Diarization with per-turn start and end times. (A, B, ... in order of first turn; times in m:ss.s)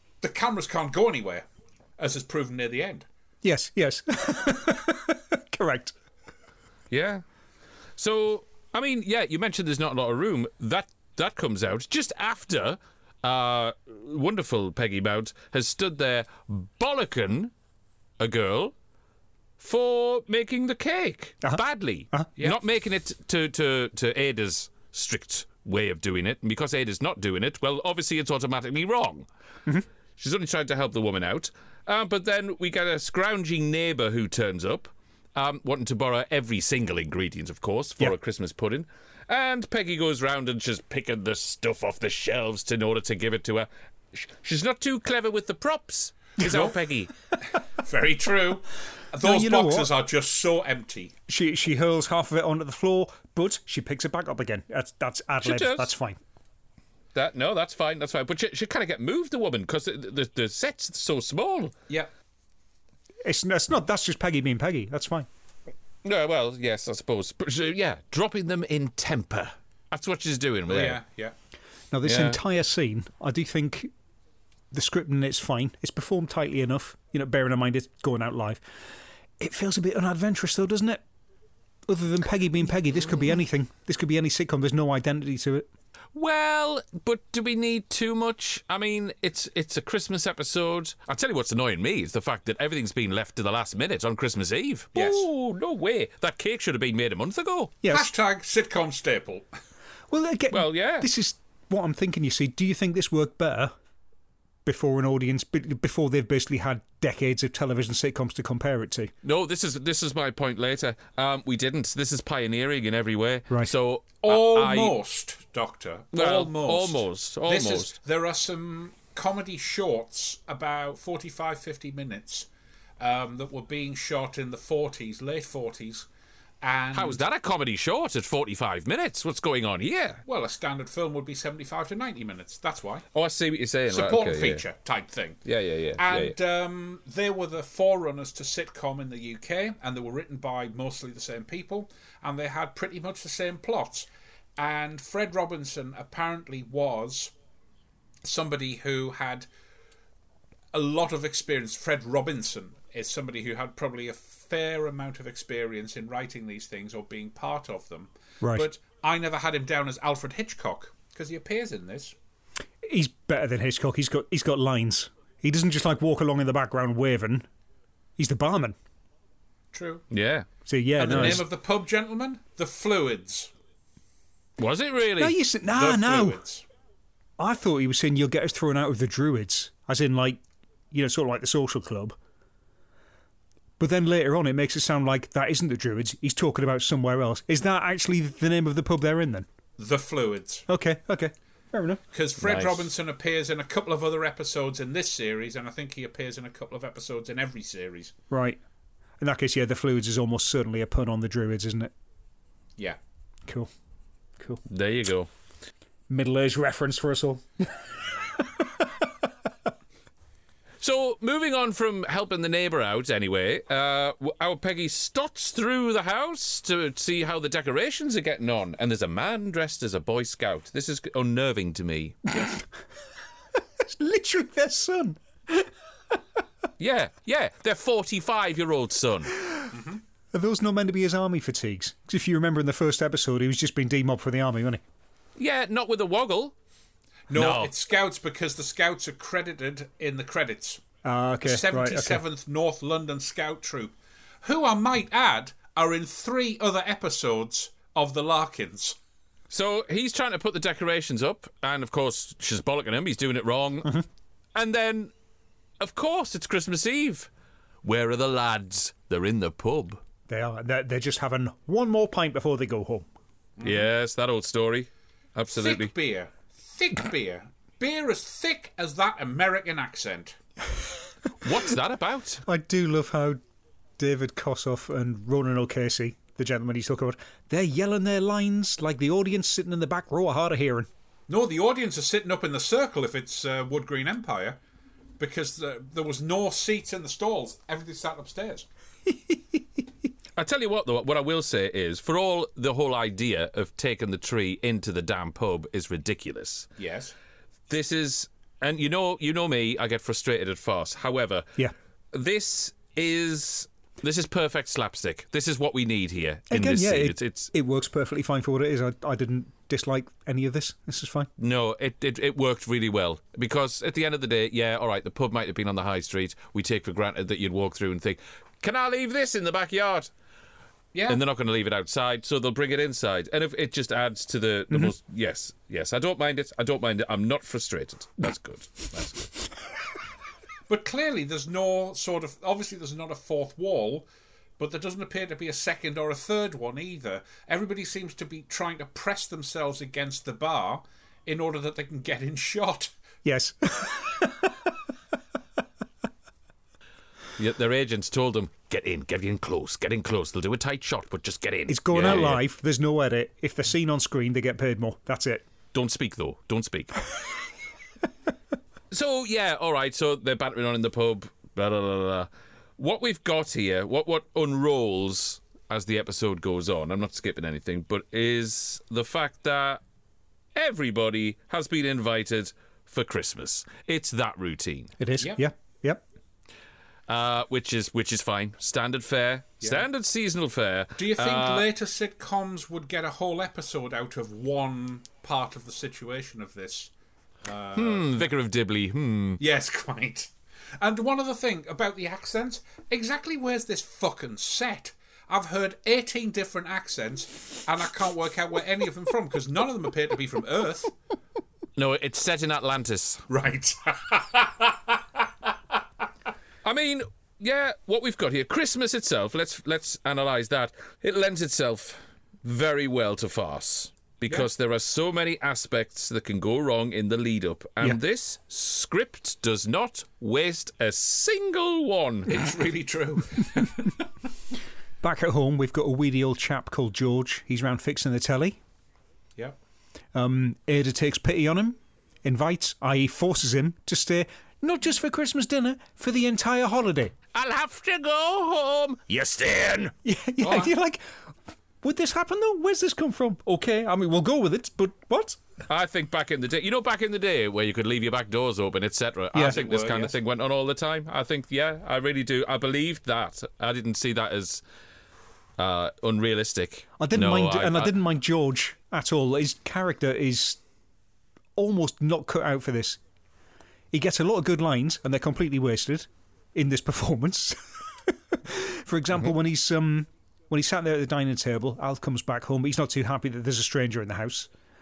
0:00.2-0:01.4 A
0:02.0-0:03.1 A
0:03.4-0:05.9 B
0:06.9-0:07.2 C
0:08.0-0:17.5 C
0:18.2-0:18.7 C
0:19.6-0:29.3 C
0:30.2-0:47.1 C
0:46.4-0:46.7 A
0:47.8-0:51.1 A
0:49.2-0:49.9 B
0:51.3-0:56.2 B
0:55.4-0:55.9 C
0:57.2-1:01.7 C
1:03.2-1:05.3 B
1:06.0-1:11.0 C
1:10.7-1:11.3 A
1:11.9-1:13.9 B
1:12.0-1:12.4 C
1:14.7-1:18.6 B
1:19.4-1:21.0 B
1:21.9-1:25.7 B
1:26.1-1:37.7 C
1:35.0-1:35.3 A
1:37.8-1:38.1 B
1:37.9-1:39.5 A
1:40.1-1:43.7 B
1:40.5-1:41.1 C
1:44.7-1:49.1 B
1:49.2-1:55.0 C
1:54.2-2:02.5 A
1:56.1-1:58.0 C
2:03.0-2:06.1 A
2:06.6-2:07.2 A
2:06.9-2:10.2 C
2:10.3-2:13.1 A
2:13.1-2:14.6 C
2:13.9-2:15.4 A
2:15.4-2:16.4 C
2:16.0-2:27.3 A
2:28.2-2:29.5 A
2:30.7-2:42.2 A
2:38.4-2:38.7 B
2:42.8-2:47.5 B
2:48.2-2:48.8 B
2:49.7-2:50.0 A
2:50.1-2:50.5 C
2:50.7-2:51.4 B
2:51.0-2:53.5 A
2:51.1-2:51.4 C
2:54.6-2:55.4 C
2:55.2-2:56.4 B
2:55.7-2:56.6 A
2:57.4-3:00.4 B
3:00.9-3:02.2 B
3:03.8-3:09.5 B
3:09.8-3:10.7 A
3:10.7-3:12.0 B
3:12.1-3:18.1 A
3:12.4-3:12.9 C
3:18.3-3:18.6 B
3:19.2-3:21.9 B
3:24.6-3:25.3 C
3:26.1-3:29.1 B
3:30.8-3:42.4 C
3:42.4-3:42.6 B
3:43.8-3:45.7 B
3:46.8-3:49.4 C
3:49.4-3:49.7 B
3:49.7-3:50.0 A
3:50.3-3:54.8 B
3:55.4-3:56.6 C
3:57.3-4:00.8 A
3:57.3-3:57.7 C
4:01.0-4:02.2 B
4:01.4-4:09.0 A
4:09.5-4:14.0 C
4:14.6-4:15.1 C
4:15.8-4:17.3 C
4:17.8-4:20.0 C
4:20.3-4:23.1 B
4:23.6-4:23.9 A
4:23.6-4:25.9 C
4:25.6-4:30.4 A
4:31.4-4:32.4 C
4:32.5-4:33.4 B
4:34.0-4:40.9 B
4:41.3-4:44.6 A
4:45.2-4:48.7 A
4:49.1-4:49.6 B
4:50.4-4:56.7 C
4:56.8-4:57.2 A
4:57.7-5:01.5 C
5:02.1-5:07.5 C
5:06.5-5:11.3 B
5:11.4-5:20.1 C
5:20.9-5:21.2 A
5:21.1-5:29.3 C
5:30.7-5:34.1 A
5:34.6-5:42.9 A
5:43.2-5:44.7 B
5:47.4-5:52.4 C
5:51.7-5:55.5 B
5:55.7-5:57.0 C
5:58.9-6:09.8 C
6:10.6-6:14.9 C
6:15.0-6:16.0 B
6:17.1-6:21.6 C
6:21.0-6:26.9 A
6:27.4-6:28.3 A
6:27.8-6:29.4 C
6:29.4-6:40.9 A
6:41.8-6:43.2 C
6:43.3-6:45.5 A
6:46.6-7:02.4 C
7:02.3-7:04.0 A
7:05.0-7:08.6 B
7:10.1-7:17.1 B
7:17.3-7:19.9 C
7:20.0-7:21.2 B
7:20.4-7:20.7 A
7:21.8-7:25.4 B
7:25.7-7:34.6 C
7:29.4-7:30.2 A
7:35.6-7:38.0 C
7:37.0-7:40.6 B
7:41.6-7:43.0 B
7:43.9-7:54.5 B